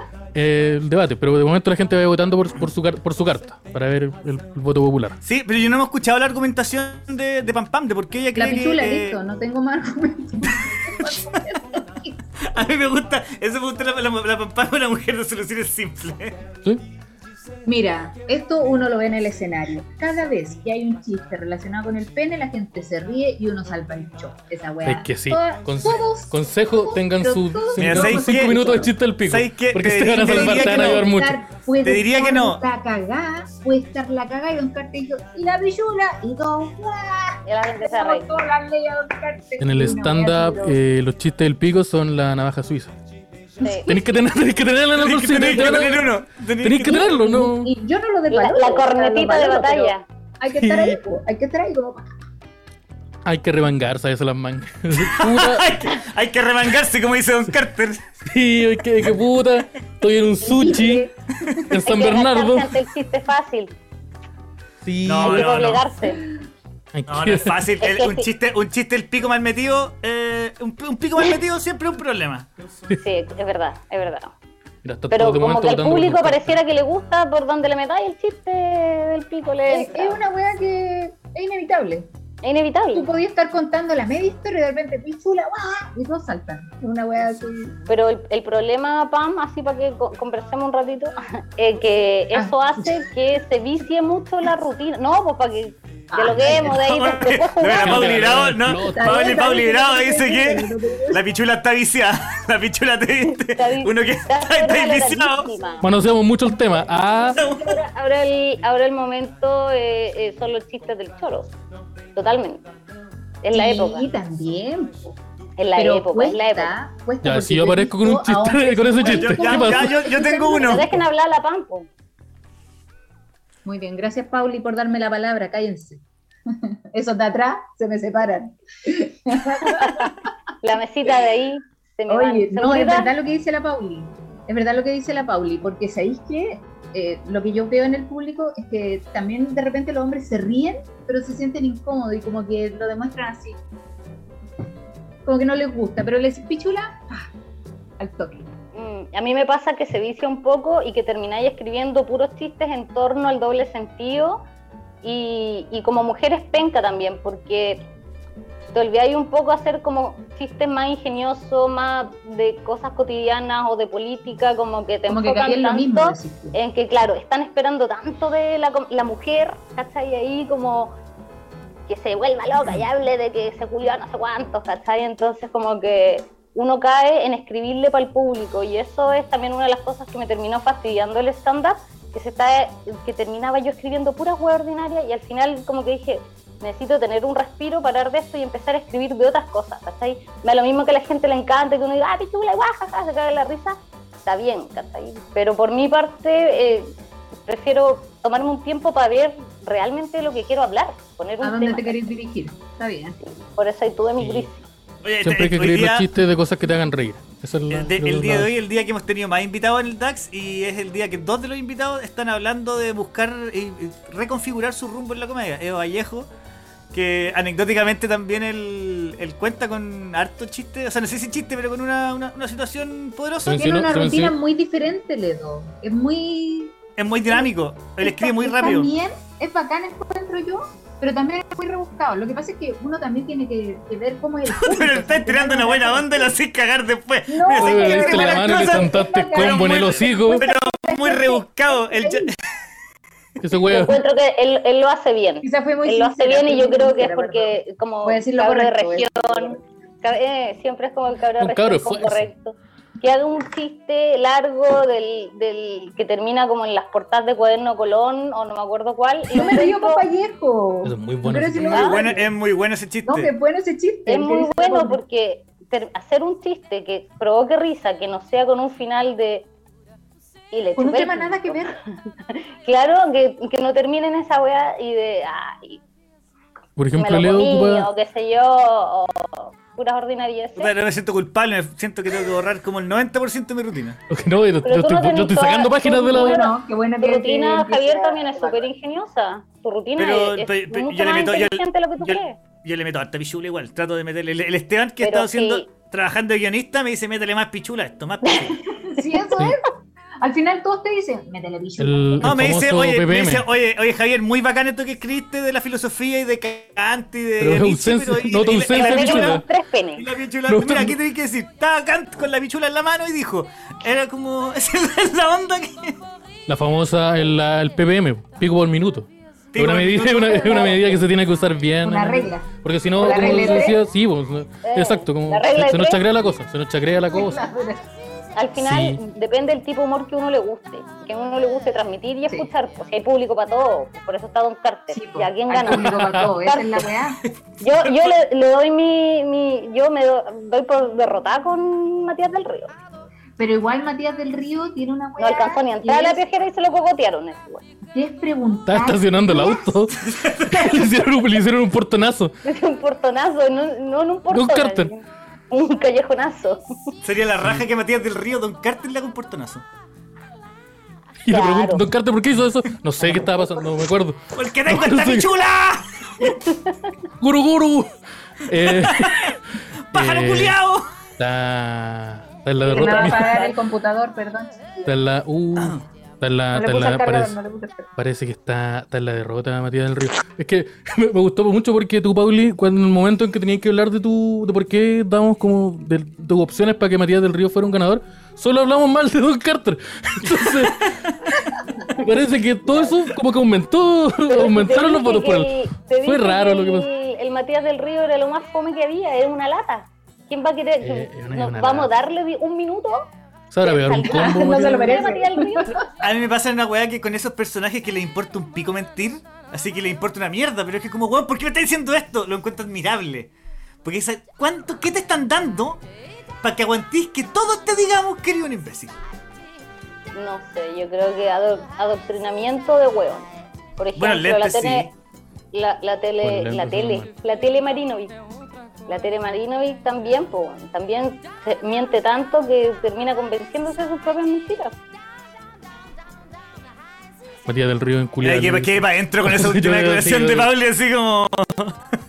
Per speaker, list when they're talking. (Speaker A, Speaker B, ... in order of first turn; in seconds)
Speaker A: 0.3-5.2, 24.9-31.4, 39.6-43.0, 43.9-47.7, 50.6-51.0, 53.2-55.8, 58.2-61.1, 61.7-62.8, 64.8-65.6, 66.9-67.7, 74.8-76.6, 97.7-99.3, 105.8-107.4, 117.2-120.1, 204.2-204.5, 205.2-208.5, 223.5-224.4, 237.6-240.4, 243.4-244.0, 251.4-252.3, 260.8-261.9, 276.8-277.9, 284.1-286.4, 301.8-303.5, 307.4-309.4, 310.5-311.0, 316.5-327.4, 328.6-329.0, 335.7-336.3, 348.7-352.3, 354.3-354.9, 361.2-365.3, 367.2-367.9, 368.4-369.4, 369.9-370.6, 371.2-373.4, 374.9-377.4, 378.0-391.0, 391.9-396.9, 400.8-401.9, 403.5-405.0, 426.2-427.1, 437.5-440.5
Speaker B: 5.2-9.2, 12.4-16.4, 27.8-31.1, 31.8-32.6, 45.0-47.1, 55.0-58.0, 65.0-65.9, 67.1-72.5, 96.4-105.5, 107.3-107.7, 119.1-120.9, 205.0-206.1, 207.7-216.3, 216.9-223.7, 227.0-228.9, 234.5-242.4, 261.7-263.3, 280.6-284.0, 290.0-298.6, 302.2-309.4, 309.9-316.0, 319.5-320.9, 337.9-338.1, 350.0-350.9, 357.0-359.6, 364.3-366.3, 368.6-369.4, 369.9-370.9, 375.6-375.8, 406.0-413.3, 413.8-415.8, 416.4-419.0, 424.0-424.9, 438.2-441.8
Speaker C: 8.3-12.2, 17.7-28.9, 30.2-40.8, 43.6-43.9, 46.9-52.1, 60.4-61.6, 79.7-82.1, 82.9-87.8, 92.3-92.9, 96.1-96.8, 98.9-101.2, 113.5-115.2, 115.7-121.0, 123.7-126.0, 126.5-130.2, 132.1-143.6, 145.2-147.3, 148.0-148.5, 165.1-166.6, 201.4-203.2, 223.6-226.8, 228.0-236.3, 237.3-242.3, 245.4-249.6, 259.3-262.3, 263.1-265.0, 270.8-271.8, 286.1-288.7, 298.9-299.7, 300.2-302.5, 321.8-323.8, 327.1-327.9, 334.9-337.2, 343.4-346.2, 347.9-349.9, 372.6-374.9, 376.5-377.9, 404.1-405.8
Speaker D: 37.5-38.3, 43.6-43.9, 48.3-50.0, 61.8-63.7, 65.2-66.2, 67.8-68.3, 73.0-74.3, 75.1-80.2, 82.4-83.1, 87.9-98.4, 103.5-105.9, 107.5-111.5, 112.2-112.7, 113.4-114.1, 115.6-116.7, 120.6-121.9, 129.7-133.1, 148.7-154.4, 155.0-157.8, 158.7-171.0, 171.9-196.9, 197.4-202.1, 203.2-204.6, 243.7-260.1, 261.7-262.0, 264.1-269.5, 270.5-271.8, 272.3-275.8, 276.9-280.7, 284.6-292.4, 295.0-295.7, 298.2-299.0, 308.7-310.1, 323.1-323.6, 324.6-326.0, 328.4-336.9, 337.6-342.7, 345.2-347.6, 352.4-356.6, 361.3-361.8, 366.2-366.9, 372.8-373.6, 394.3-403.1, 403.6-405.8, 420.1-424.9, 425.5-428.2, 428.9-434.8